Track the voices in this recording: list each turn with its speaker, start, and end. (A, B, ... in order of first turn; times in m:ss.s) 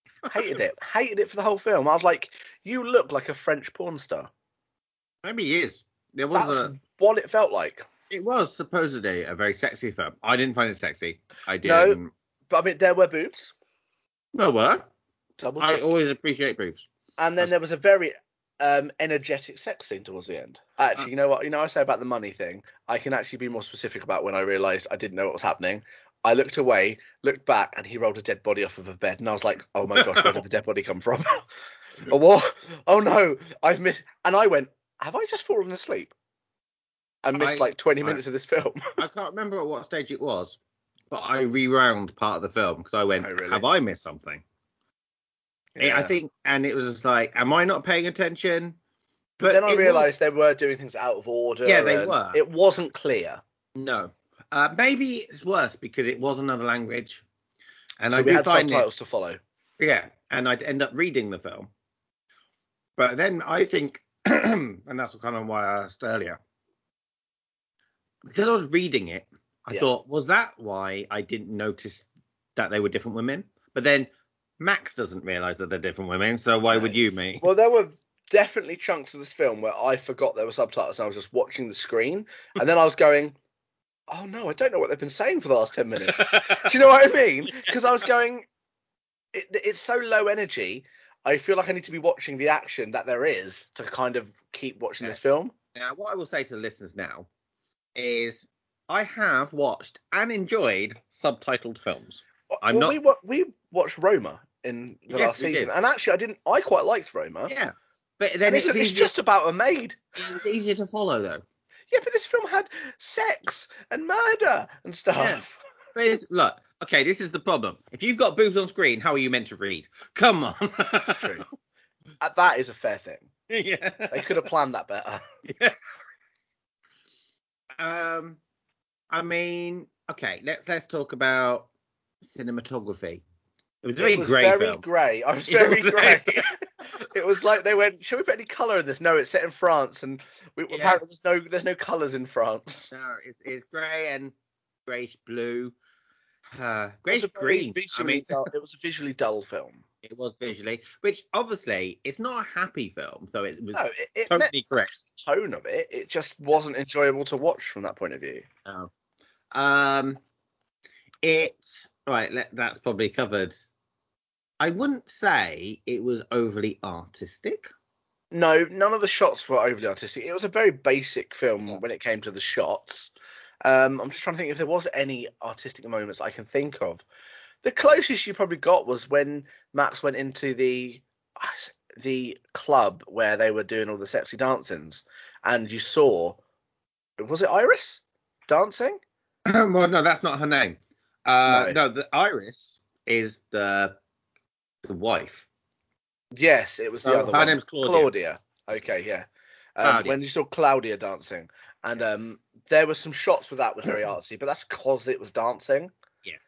0:00.2-0:04.3 A
0:05.2-0:06.7 B
0:06.3-0:07.9 A
0:08.1-0:12.1 B
0:11.6-0:12.0 A
0:12.5-0:13.5 A
0:14.3-0:14.9 B
0:15.4-0:15.8 A
0:15.6-0:16.8 B
0:17.2-0:31.4 A
0:30.0-0:30.4 B
0:32.0-0:36.1 A
0:37.2-0:38.9 A
0:37.4-0:38.2 B
0:39.0-0:40.6 B
0:41.1-0:44.4 B
0:43.2-0:43.6 A
0:45.8-0:46.2 A
0:45.8-0:48.8 B
0:49.4-0:50.1 B
0:49.4-0:53.4 A
0:51.6-0:52.4 B
0:53.8-0:57.2 B
0:58.0-0:58.9 B
0:58.1-0:59.4 A
0:59.8-1:01.7 B
1:03.0-1:06.4 B
1:08.2-1:17.5 B
1:16.7-1:23.4 A
1:24.1-1:28.5 A
1:26.1-1:26.7 B
1:29.3-1:35.5 A
1:35.7-1:37.3 B
1:38.0-1:43.0 B
1:42.5-1:47.5 A
1:45.1-1:45.7 B
1:47.5-1:49.1 B
1:48.5-1:50.4 A
1:50.2-1:51.4 B
1:51.9-1:55.5 A
1:55.2-1:55.4 B
1:56.0-2:01.4 B
2:01.1-2:01.5 A
2:02.2-2:03.3 A
2:03.5-2:04.4 B
2:04.1-2:05.3 A
2:05.5-2:05.8 B
2:07.8-2:08.4 B
2:09.1-2:11.7 B
2:12.2-2:13.2 B
2:13.8-2:14.8 B
2:14.0-2:22.9 A
2:15.5-2:16.5 B
2:20.7-2:21.0 B
2:22.9-2:24.3 B
2:24.9-2:25.7 B
2:26.5-2:28.4 B
2:27.1-2:29.8 A
2:30.0-2:34.9 B
2:33.7-2:38.5 A
2:39.5-2:40.2 B
2:41.2-2:43.6 B
2:44.6-2:47.7 B
2:48.3-2:53.1 A
2:53.6-2:57.0 A
2:57.6-3:06.4 A
3:07.2-3:09.0 A
3:09.5-3:13.9 B
3:11.5-3:11.8 A
3:14.8-3:15.5 B
3:16.4-3:25.9 A
3:17.0-3:18.1 B
3:19.8-3:20.2 B